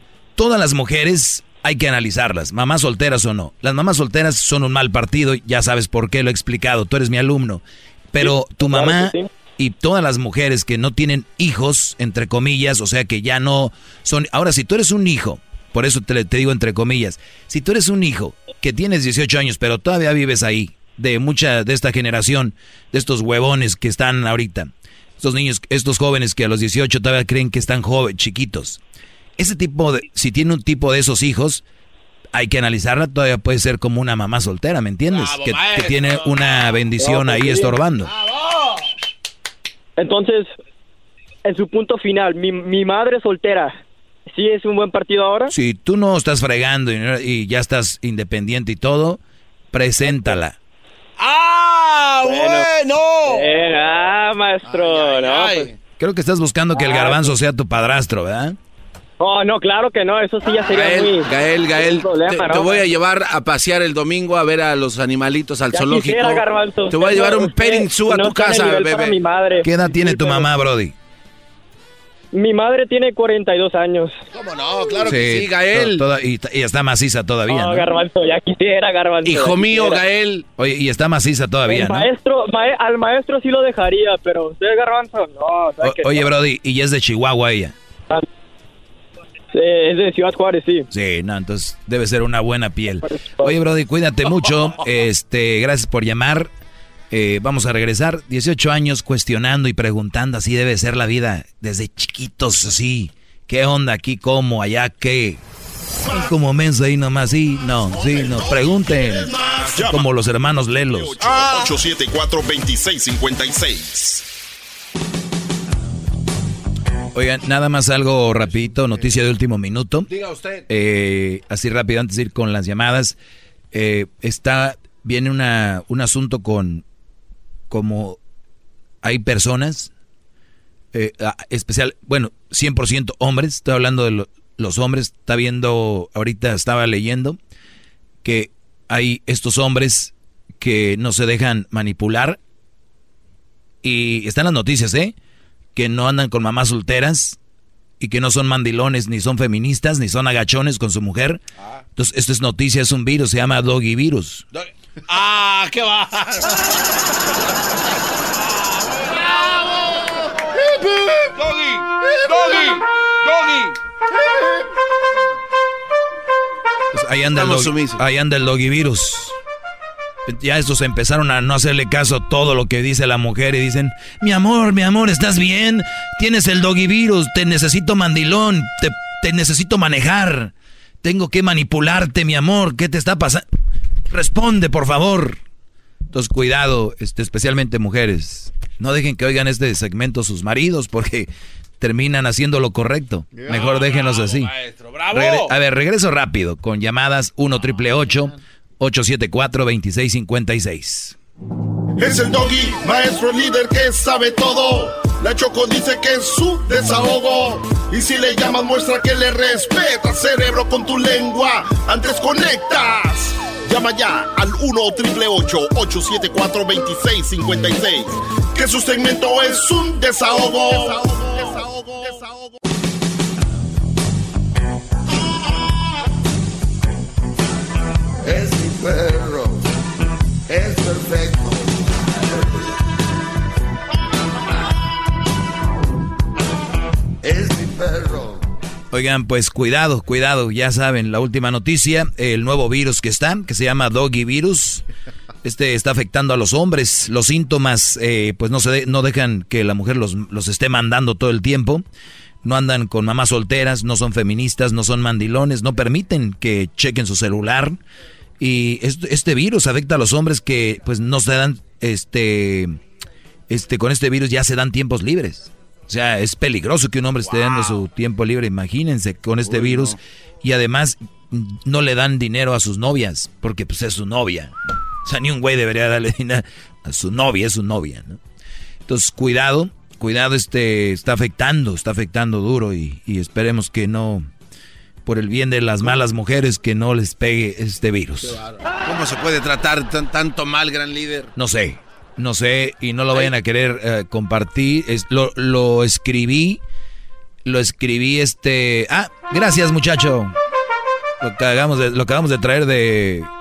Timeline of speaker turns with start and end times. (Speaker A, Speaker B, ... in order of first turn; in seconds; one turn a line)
Speaker A: 0.4-28.8
Speaker B: 8.2-9.3
Speaker A: 29.4-31.6
Speaker A: 32.3-38.1
Speaker C: 35.1-36.7
Speaker B: 37.0-37.7
Speaker C: 38.0-38.8
Speaker B: 40.0-40.5
Speaker B: 41.5-43.8
Speaker B: 44.3-45.5
Speaker A: 45.5-49.2
Speaker A: 49.7-50.5
Speaker C: 51.2-53.5
Speaker B: 52.2-52.6
Speaker B: 53.3-55.7
Speaker D: 54.6-55.0
Speaker C: 54.8-55.7
Speaker A: 56.0-58.6
Speaker B: 56.7-57.2
Speaker B: 59.2-62.9
Speaker C: 60.7-69.2
Speaker B: 65.7-70.5
Speaker A: 69.6-70.9
Speaker B: 72.3-74.2
Speaker C: 74.3-76.0
Speaker A: 75.1-77.9
Speaker B: 77.5-80.0
Speaker C: 79.2-80.5
Speaker A: 80.6-82.1
Speaker B: 81.7-86.3
Speaker A: 85.8-87.8
Speaker B: 89.5-90.9
Speaker A: 90.9-96.5
Speaker B: 93.0-93.6
Speaker A: 97.1-105.4
Speaker A: 106.1-111.4
Speaker E: 108.0-110.1
Speaker E: 110.9-114.2
Speaker A: 117.1-120.1
Speaker C: 120.1-120.7
Speaker A: 120.7-123.2
Speaker A: 123.7-126.8
Speaker A: 127.7-128.2
Speaker A: 129.0-129.9
Speaker A: 130.9-137.4
Speaker A: 138.2-142.4
Speaker A: 143.8-145.2
Speaker A: 145.8-147.4
Speaker A: 148.0-151.4
Speaker A: 152.0-154.4
Speaker C: 154.5-156.6
Speaker C: 158.3-159.8
Speaker D: 159.1-161.3
Speaker C: 161.3-163.8
Speaker D: 162.0-162.8
Speaker D: 164.2-164.5
Speaker A: 166.9-169.4
Speaker C: 167.3-168.0
Speaker A: 170.3-183.4
Speaker A: 184.1-185.4
Speaker A: 186.1-194.5
Speaker D: 193.3-193.6
Speaker C: 193.5-195.5
Speaker A: 195.1-201.2
Speaker D: 198.0-198.3
Speaker E: 202.0-222.6
Speaker D: 228.2-229.6
Speaker D: 230.5-231.7
Speaker D: 237.2-238.4
Speaker A: 238.9-244.9
Speaker A: 245.4-251.8
Speaker A: 252.4-257.8
Speaker A: 258.4-262.7
Speaker A: 263.5-278.2
Speaker C: 267.2-267.8
Speaker C: 269.4-270.0
Speaker A: 278.9-284.3
Speaker A: 285.1-288.4
Speaker C: 288.2-291.3
Speaker A: 291.4-296.6
Speaker A: 297.4-300.4
Speaker A: 301.2-303.3